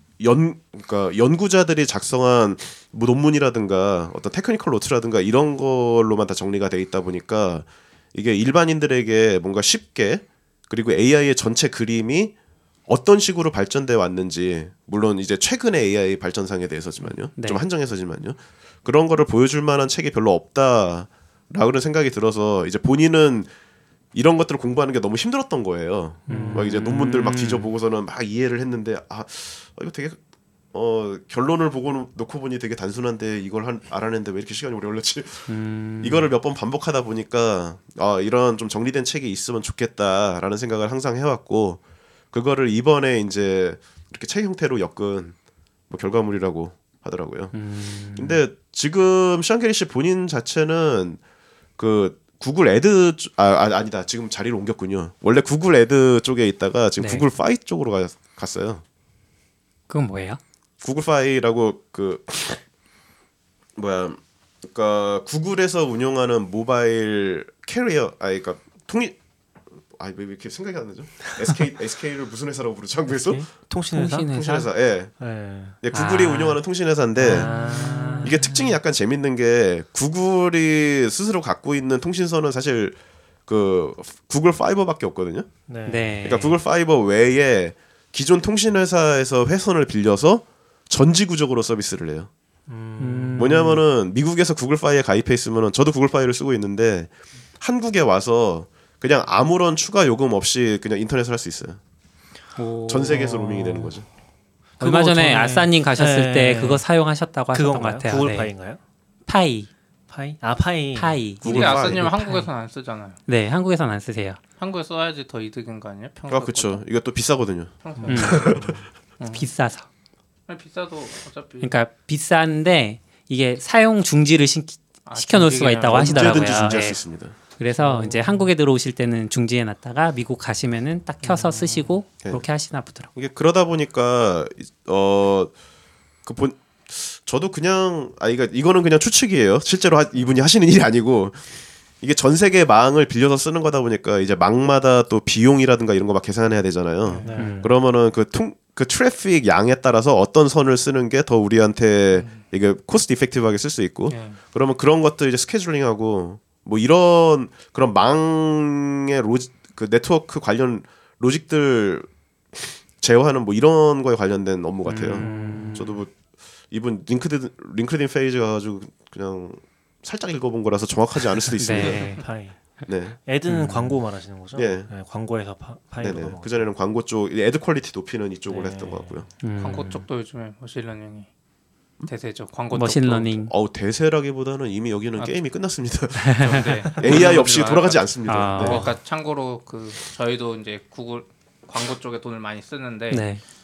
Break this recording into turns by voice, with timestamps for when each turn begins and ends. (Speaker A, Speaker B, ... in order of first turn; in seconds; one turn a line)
Speaker A: 0.2-12.3
Speaker A: 12.9-23.5
Speaker B: 17.4-17.6
Speaker A: 24.1-30.2
Speaker C: 26.3-26.7
Speaker B: 26.3-27.7
Speaker A: 30.7-41.8
Speaker B: 35.5-36.3
Speaker A: 42.3-45.4
Speaker A: 45.9-47.5
Speaker B: 47.5-48.4
Speaker A: 48.1-51.2
Speaker A: 51.8-58.8
Speaker B: 57.0-57.3
Speaker B: 59.9-60.4
Speaker A: 60.8-62.6
Speaker A: 63.8-69.2
Speaker A: 69.9-73.5
Speaker C: 73.1-74.3
Speaker B: 73.9-74.7
Speaker A: 74.3-75.1
Speaker C: 75.2-75.8
Speaker A: 75.8-77.5
Speaker B: 75.9-76.6
Speaker C: 77.2-78.3
Speaker B: 77.2-78.8
Speaker A: 78.2-85.5
Speaker C: 85.7-86.1
Speaker B: 85.8-86.6
Speaker A: 86.2-92.3
Speaker C: 92.7-93.7
Speaker B: 93.0-93.8
Speaker A: 93.3-101.8
Speaker B: 102.6-103.8
Speaker A: 102.9-104.0
Speaker C: 103.4-103.8
Speaker C: 104.8-106.8
Speaker B: 104.8-108.5
Speaker C: 107.5-108.8
Speaker B: 109.2-109.7
Speaker C: 110.1-112.4
Speaker B: 111.0-112.2
Speaker A: 111.4-112.1
Speaker D: 111.4-113.2
Speaker B: 113.3-114.4
Speaker D: 114.6-116.8
Speaker A: 116.3-118.8
Speaker D: 117.8-118.6
Speaker C: 118.0-118.8
Speaker B: 118.0-118.5
Speaker D: 119.2-119.5
Speaker B: 119.3-119.9
Speaker D: 120.5-121.7
Speaker B: 121.6-133.1
Speaker D: 125.0-126.9
Speaker A: 125.9-127.3
Speaker D: 127.8-128.4
Speaker D: 131.2-132.0
Speaker A: 133.1-135.5
Speaker A: 136.2-166.1
Speaker D: 147.1-147.4
Speaker C: 147.2-147.7
Speaker B: 147.4-147.7
Speaker D: 152.1-152.4
Speaker D: 154.1-154.4
Speaker B: 164.8-166.0
Speaker C: 165.2-165.8
Speaker A: 166.7-172.2
Speaker B: 171.6-172.2
Speaker C: 171.8-172.6
Speaker A: 172.9-173.2
Speaker C: 173.2-176.7
Speaker B: 173.5-174.0
Speaker A: 174.5-174.9
Speaker A: 176.0-179.3
Speaker C: 178.5-179.2
Speaker B: 179.4-180.1
Speaker D: 179.6-181.3
Speaker D: 182.1-183.4
Speaker B: 182.7-183.5
Speaker A: 183.5-188.8
Speaker B: 186.3-186.6
Speaker D: 186.4-193.3
Speaker B: 188.3-188.9
Speaker B: 193.1-193.4